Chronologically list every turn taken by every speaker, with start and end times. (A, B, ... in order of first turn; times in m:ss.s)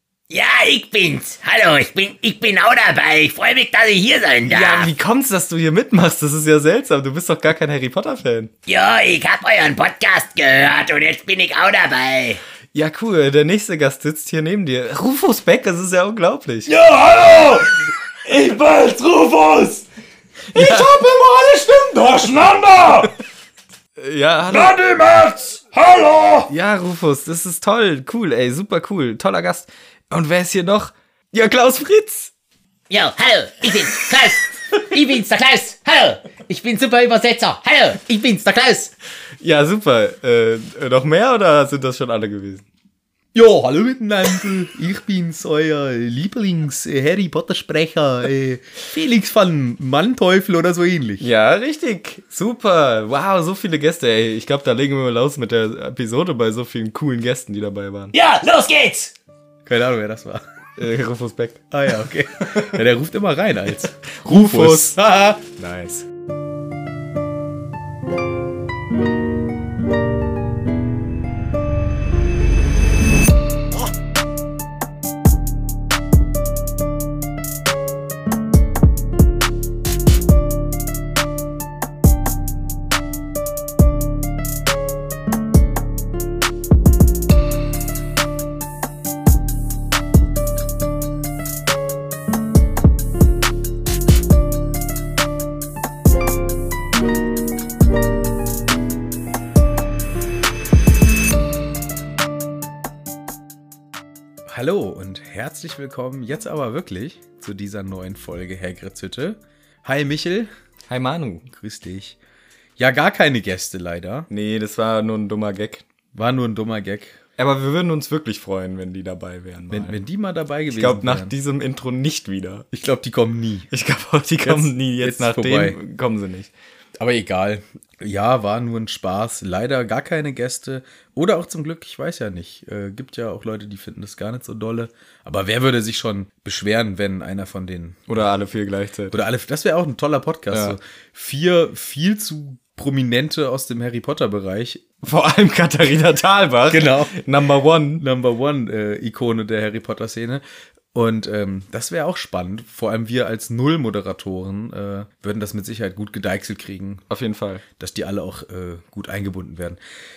0:00.3-0:04.9 A
0:04.5-0:08.5 B
0:08.7-0:12.4 A
0:12.7-0:16.7 B
0:16.7-0:17.6 C
0:17.3-0:17.6 A
0:18.3-0:19.8 C
0:20.5-0:21.0 B
0:20.6-0:23.1 C
0:24.0-0:24.8 B
0:24.5-0:26.4 C
0:26.5-0:32.3 B
0:32.9-0:38.9 A
0:39.4-0:42.6 B
0:43.3-0:51.3 C
0:51.2-0:58.1 B
0:58.1-0:59.1 A
0:59.7-1:00.4 C
1:00.8-1:01.7 B
1:01.7-1:05.4 C
1:02.4-1:02.8 B
1:04.1-1:05.0 B
1:05.6-1:06.1 B
1:44.5-1:50.5 C
1:50.9-1:51.5 B
1:51.5-1:52.2 C
1:52.8-1:54.3 C
1:54.3-1:55.8 B
1:56.1-1:57.2 C
1:57.4-2:00.0 B
1:59.7-2:01.3 C
2:00.7-2:02.7 B
2:02.7-2:03.7 C
2:03.7-2:06.5 B
2:04.4-2:05.8 C
2:07.0-2:18.2 C
2:18.1-2:19.2 B
2:19.1-2:24.8 C
2:20.5-2:20.8 B
2:25.0-2:28.0 B
2:26.7-2:30.4 C
2:30.9-2:37.0 C
2:37.1-2:37.6 B
2:37.8-2:39.8 C